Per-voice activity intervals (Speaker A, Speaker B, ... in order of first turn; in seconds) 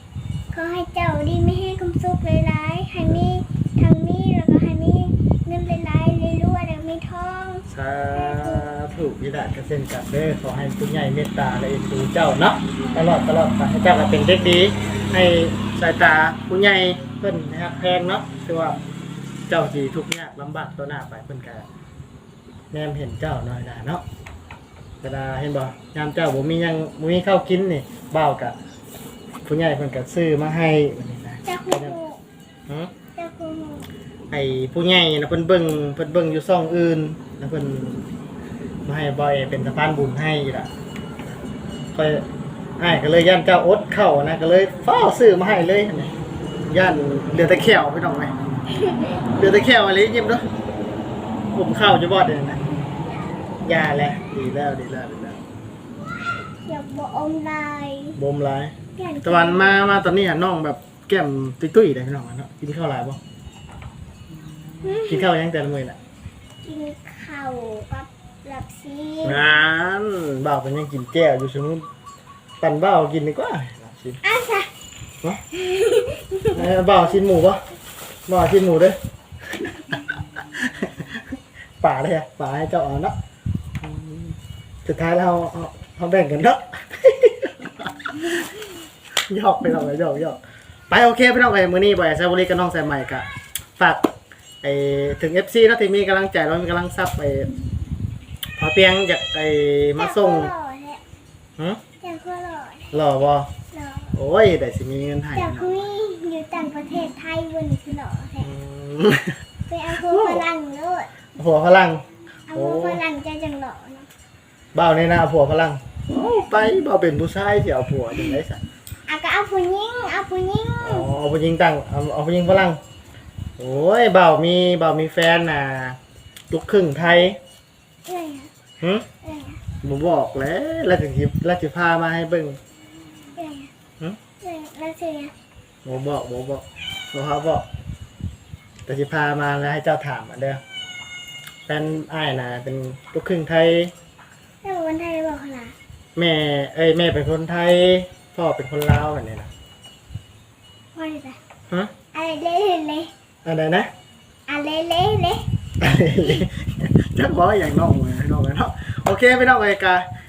Speaker A: 0.5-8.7, 12.8-13.1, 31.4-32.2, 33.1-33.9, 48.7-49.2, 56.6-58.2, 59.0-59.8, 64.8-65.3, 66.6-69.4, 74.2-74.7, 75.5-76.6, 100.0-101.0, 102.0-102.9, 103.7-104.2, 105.3-108.5, 109.7-111.1, 112.5-114.1, 119.1-121.1, 128.0-128.5, 129.2-129.6, 133.3-133.7, 134.4-135.3, 144.6-145.7, 150.9-151.4, 152.1-153.1, 154.5-155.4
Speaker B: 7.7-18.8, 19.5-21.7, 22.7-24.0, 25.0-28.6, 29.4-31.9, 34.3-38.0, 38.9-40.7, 41.9-42.2, 42.8-46.1, 46.7-48.3, 49.4-50.4, 51.5-52.6, 53.6-55.4, 58.2-63.2, 64.3-66.0, 69.2-71.8, 72.6-74.2, 76.5-77.6, 78.3-79.0, 79.5-80.0, 80.5-83.1, 83.8-88.5, 89.3-93.2, 93.8-94.1, 94.6-97.5, 98.6-100.5, 102.9-103.5, 104.1-105.9, 108.4-109.4, 110.0-110.5, 111.3-113.0, 114.7-118.6, 120.8-122.8, 123.6-126.0, 126.5-127.4, 128.8-129.1, 129.8-132.6, 135.8-137.6, 138.8-140.6, 141.7-143.9, 146.2-149.5, 153.4-153.9, 155.8-160.0